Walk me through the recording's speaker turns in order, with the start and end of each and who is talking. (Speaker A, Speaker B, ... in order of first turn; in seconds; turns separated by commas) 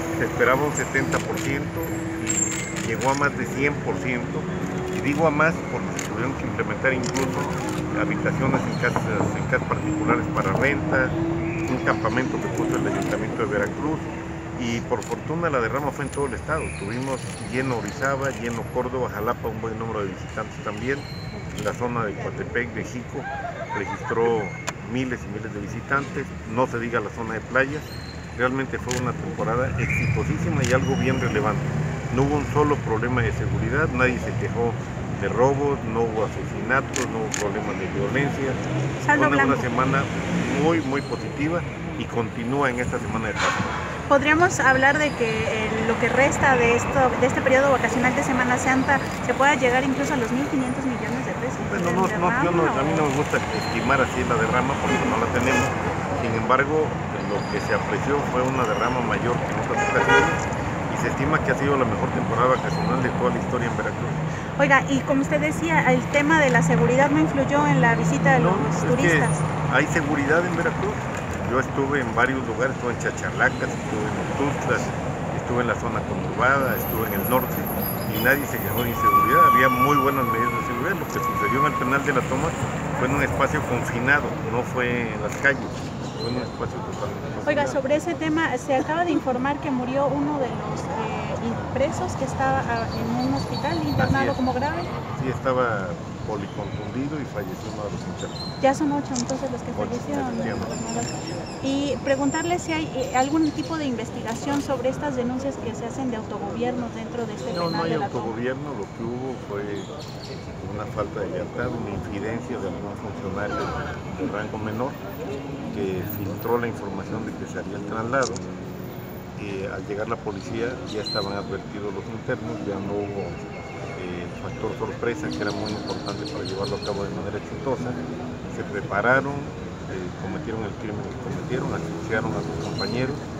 Speaker A: 0.1-38.6, Speaker B: 39.0-39.7, Speaker A: 39.1-43.8, Speaker B: 44.1-53.1, Speaker A: 51.7-64.2, Speaker B: 64.6-69.4, Speaker A: 68.3-87.8, Speaker B: 87.4-94.9, Speaker A: 94.0-94.4, Speaker A: 95.1-98.4, Speaker B: 98.6-108.3, Speaker A: 99.7-100.7, Speaker A: 107.5-109.9, Speaker A: 110.6-115.0, Speaker A: 115.7-118.4, Speaker A: 119.4-128.0, Speaker A: 128.5-133.2